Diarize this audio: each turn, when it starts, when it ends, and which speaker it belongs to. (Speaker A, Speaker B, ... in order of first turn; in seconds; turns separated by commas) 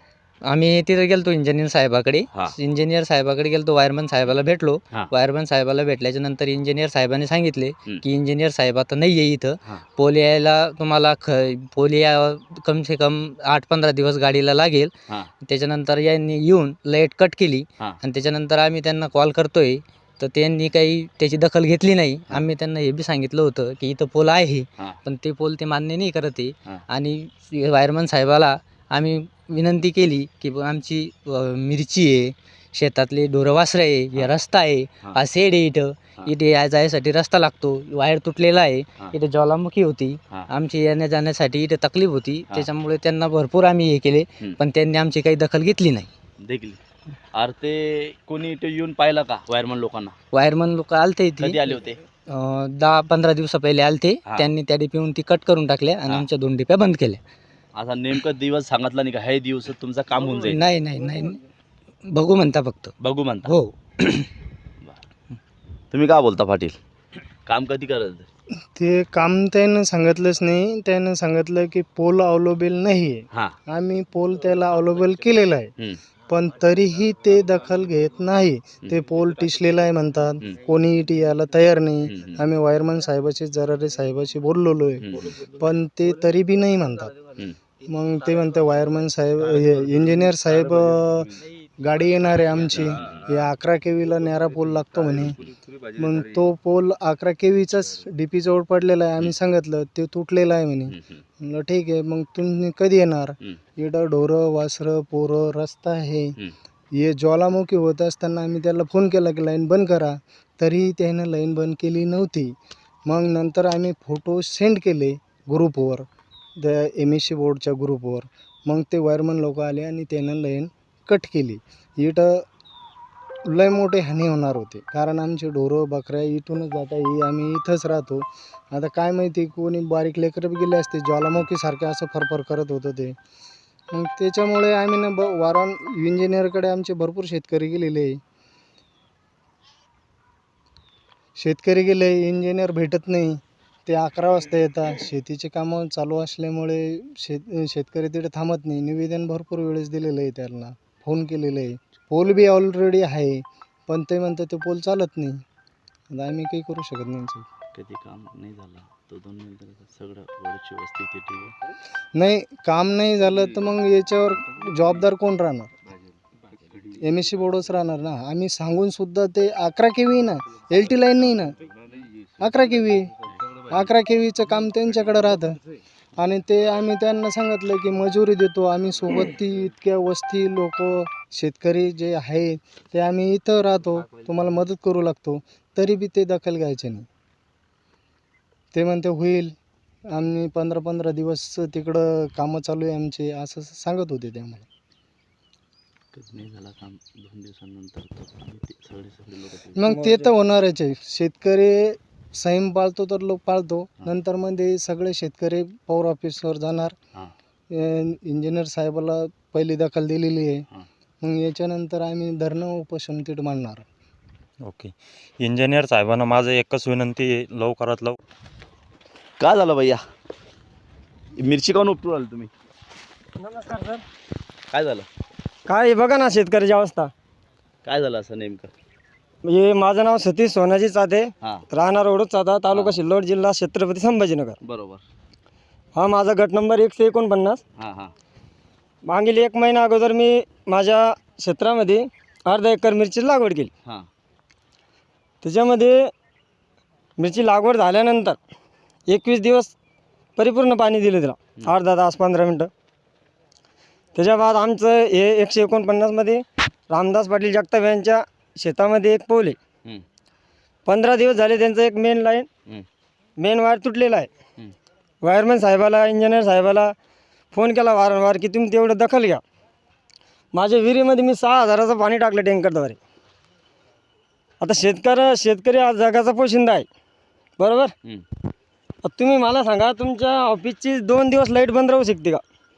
Speaker A: 0.5-46.1, Speaker B: 46.4-46.8, Speaker B: 47.3-50.1, Speaker A: 50.3-51.7, Speaker B: 51.4-52.0, Speaker A: 52.3-57.2, Speaker B: 57.7-60.6, Speaker A: 60.4-61.4, Speaker A: 62.0-64.3, Speaker B: 63.0-63.5, Speaker B: 65.9-66.8, Speaker B: 67.5-68.3, Speaker C: 68.7-75.7, Speaker B: 73.3-73.6, Speaker C: 76.3-87.1, Speaker B: 82.1-82.4, Speaker B: 85.0-85.3, Speaker C: 87.9-91.3, Speaker C: 91.8-95.4, Speaker C: 96.0-106.4, Speaker B: 100.9-101.2, Speaker C: 106.9-116.1, Speaker C: 116.6-122.4, Speaker C: 123.5-133.2, Speaker C: 133.9-138.2, Speaker C: 141.3-155.4, Speaker C: 156.1-157.4, Speaker B: 157.7-161.5, Speaker C: 162.1-165.7, Speaker C: 167.0-171.6, Speaker C: 172.4-173.1, Speaker C: 173.7-175.6, Speaker C: 176.2-187.1, Speaker C: 188.7-189.6, Speaker C: 190.1-194.7, Speaker B: 196.1-199.8, Speaker C: 199.8-206.9, Speaker D: 199.9-200.3, Speaker C: 207.7-210.7, Speaker C: 211.2-213.8, Speaker E: 214.6-218.2, Speaker B: 219.4-220.0, Speaker B: 221.4-222.5, Speaker D: 223.4-224.0, Speaker B: 224.7-225.1, Speaker D: 225.7-227.1, Speaker B: 227.8-228.7, Speaker D: 229.4-234.6, Speaker B: 234.6-235.0, Speaker D: 235.9-237.6, Speaker B: 237.8-238.1, Speaker D: 239.0-243.7, Speaker D: 245.4-246.1, Speaker D: 247.2-248.4, Speaker D: 249.1-249.7, Speaker D: 250.3-252.7, Speaker D: 254.1-259.6, Speaker D: 260.9-262.5, Speaker D: 263.4-264.3, Speaker D: 265.2-266.9, Speaker D: 267.5-269.4, Speaker D: 270.5-273.0, Speaker D: 274.6-276.9, Speaker D: 277.6-277.9, Speaker D: 279.0-282.4